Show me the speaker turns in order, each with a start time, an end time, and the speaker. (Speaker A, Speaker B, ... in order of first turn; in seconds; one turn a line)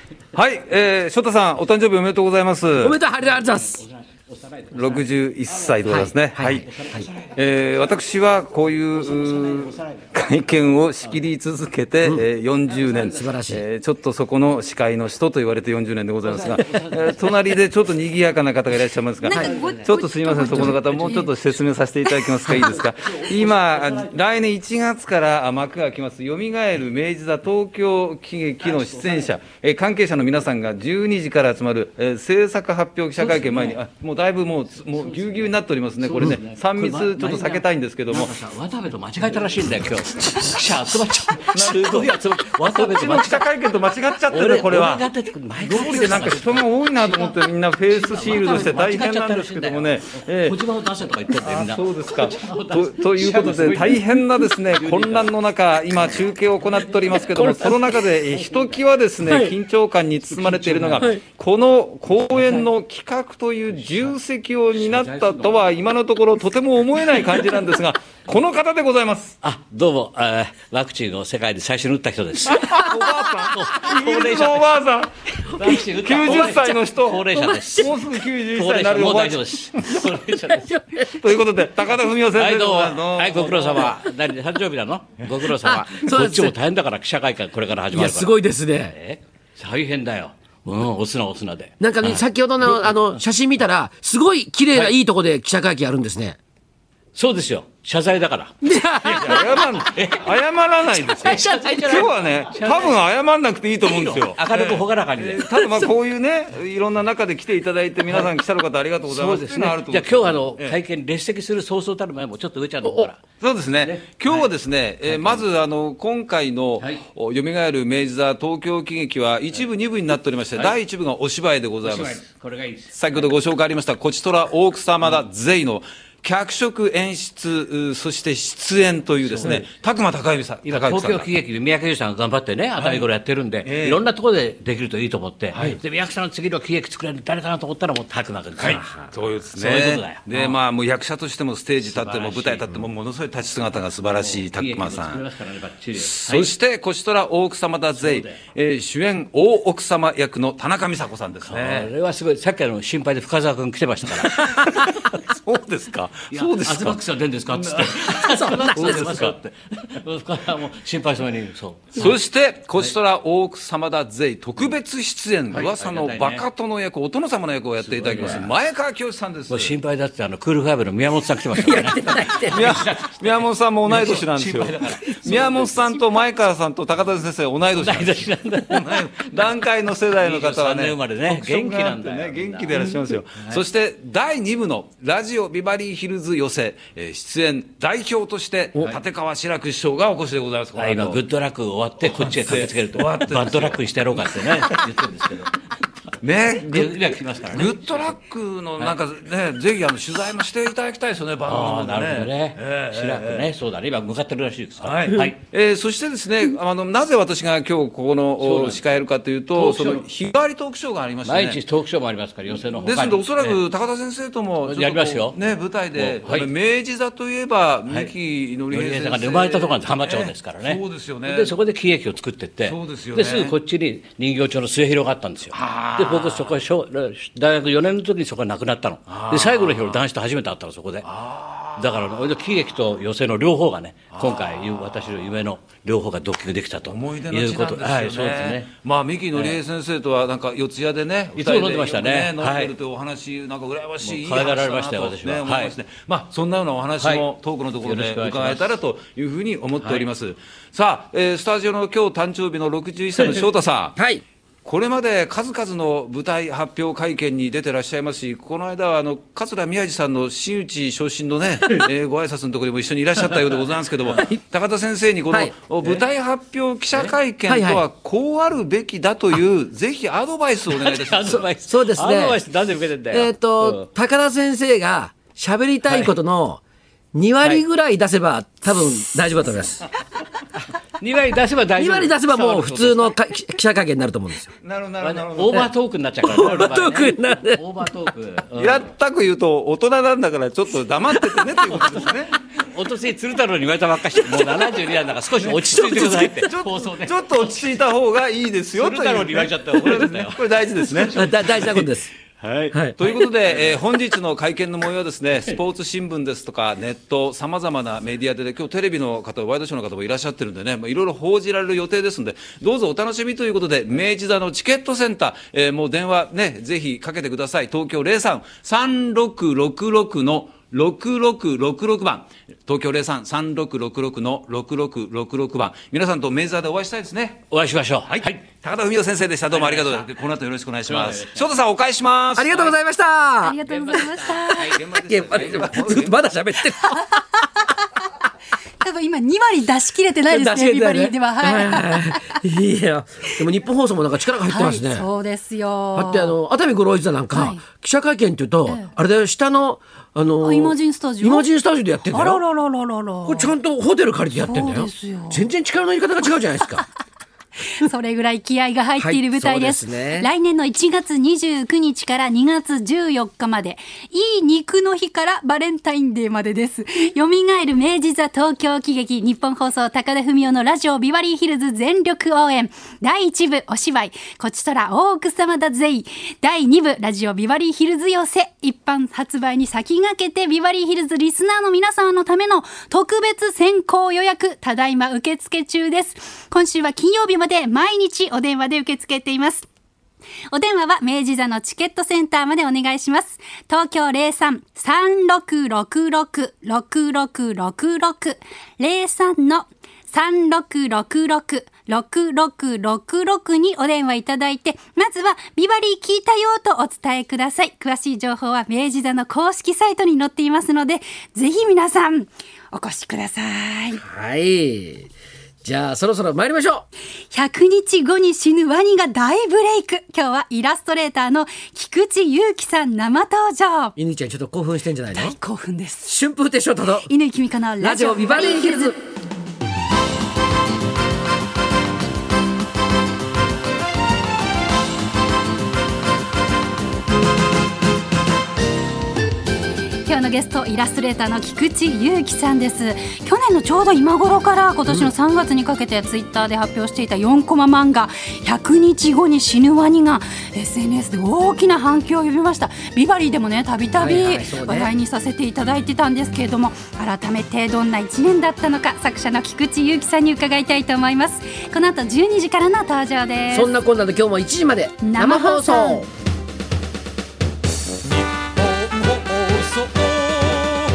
Speaker A: 0.3-3.0
Speaker B: 2.8-3.8
Speaker C: 3.2-5.8
Speaker A: 4.7-6.7
Speaker B: 5.8-7.1
Speaker C: 6.6-7.3
Speaker A: 7.3-38.4
Speaker C: 8.9-10.1
Speaker C: 12.7-13.3
Speaker B: 13.1-13.6
Speaker C: 16.2-17.6
Speaker D: 19.2-21.3
Speaker C: 20.4-21.3
Speaker C: 22.4-24.1
Speaker C: 28.6-29.3
Speaker C: 33.2-33.8
Speaker C: 34.8-43.5
Speaker A: 41.5-42.1
Speaker A: 42.7-45.1
Speaker C: 44.3-55.4
Speaker A: 45.6-50.6
Speaker A: 51.4-69.4
Speaker C: 55.9-59.5
Speaker B: 59.3-59.5
Speaker C: 60.2-61.2
Speaker C: 62.2-62.7
Speaker C: 63.7-64.2
Speaker C: 64.7-65.9
Speaker C: 67.1-67.6
Speaker C: 69.4-74.8
Speaker A: 72.5-75.1
Speaker C: 75.6-80.7
Speaker B: 75.6-76.6
Speaker A: 75.9-79.7
Speaker B: 80.6-81.1
Speaker A: 81.2-83.9
Speaker C: 82.3-88.3
Speaker B: 85.5-86.6
Speaker B: 87.9-89.0
Speaker C: 88.9-92.9
Speaker B: 91.8-96.4
Speaker C: 97.2-103.0
Speaker B: 98.6-99.3
Speaker A: 99.0-110.8
Speaker C: 103.8-105.9
Speaker C: 108.0-108.3
Speaker C: 109.0-113.2
Speaker B: 112.8-113.1
Speaker A: 113.4-122.2
Speaker C: 113.8-115.5
Speaker C: 120.5-120.8
Speaker C: 121.8-123.4
Speaker A: 123.0-131.3
Speaker C: 129.2-129.7
Speaker C: 130.7-139.0
Speaker A: 132.8-133.1
Speaker A: 133.6-134.0
Speaker A: 135.5-135.8
Speaker A: 138.6-145.2
Speaker C: 139.5-140.6
Speaker C: 141.8-142.8
Speaker C: 144.0-146.5
Speaker A: 145.9-151.9
Speaker C: 147.9-148.4
Speaker C: 151.4-154.8
Speaker A: 155.2-159.4
Speaker C: 156.3-162.2
Speaker B: 158.2-159.2
Speaker A: 162.0-169.8
Speaker C: 165.5-166.4
Speaker C: 167.8-168.6
Speaker C: 169.5-176.3
Speaker B: 171.5-172.8
Speaker A: 172.5-191.2
Speaker C: 177.7-179.5
Speaker C: 180.1-183.6
Speaker C: 190.8-195.5
Speaker A: 192.0-194.7
Speaker A: 196.2-203.5
Speaker C: 196.6-198.2
Speaker C: 201.4-205.4
Speaker A: 204.8-211.6
Speaker C: 208.4-208.8
Speaker C: 209.5-210.1
Speaker C: 211.2-213.6
Speaker A: 212.8-221.5
Speaker C: 214.6-215.4
Speaker C: 215.9-216.5
Speaker C: 217.9-218.1
Speaker C: 218.7-231.1
Speaker A: 222.6-223.6
Speaker A: 225.5-226.6
Speaker A: 229.1-230.0
Speaker A: 231.1-232.0
Speaker C: 231.8-238.7
Speaker A: 234.1-235.1
Speaker A: 236.8-254.0
Speaker C: 239.3-239.6
Speaker C: 241.3-242.7
Speaker C: 244.0-245.8
Speaker C: 247.0-247.3
Speaker C: 247.8-248.8
Speaker C: 249.8-250.1
Speaker B: 254.0-254.2
Speaker A: 254.7-271.5
Speaker B: 267.5-267.8
Speaker C: 270.6-273.9
Speaker B: 271.6-272.4
Speaker B: 273.1-276.6
Speaker C: 275.9-276.1
Speaker B: 277.1-279.9
Speaker C: 281.0-283.1
Speaker B: 281.8-284.5
Speaker A: 284.6-285.7
Speaker C: 285.0-288.9
Speaker B: 286.2-287.6
Speaker A: 288.6-292.3
Speaker C: 291.6-297.8
Speaker A: 295.4-301.2
Speaker C: 298.7-304.0
Speaker B: 301.1-302.1
Speaker A: 303.0-327.4
Speaker C: 327.5-328.4
Speaker A: 328.1-332.7
Speaker C: 329.4-330.1
Speaker C: 330.8-331.6
Speaker B: 332.4-333.6
Speaker D: 333.4-334.8
Speaker C: 333.6-335.6
Speaker A: 334.5-336.2
Speaker B: 335.1-337.0
Speaker D: 336.8-337.8
Speaker D: 338.8-342.4
Speaker B: 340.3-345.1
Speaker D: 344.5-346.4
Speaker B: 345.9-352.4
Speaker D: 347.3-347.6
Speaker D: 348.7-348.9
Speaker D: 350.4-351.5
Speaker D: 352.1-353.5
Speaker B: 353.2-356.9
Speaker D: 354.4-355.4
Speaker D: 357.7-389.7
Speaker B: 359.0-360.3
Speaker D: 390.5-414.0
Speaker B: 414.0-415.1
Speaker B: 415.6-416.9
Speaker D: 417.3-424.0
Speaker B: 424.0-425.4
Speaker D: 425.1-426.1
Speaker B: 426.1-427.1
Speaker D: 427.1-428.9
Speaker B: 427.8-429.0
Speaker D: 440.1-463.7
Speaker B: 454.0-454.9
Speaker B: 463.5-466.1
Speaker D: 465.0-466.1
Speaker A: 468.7-470.8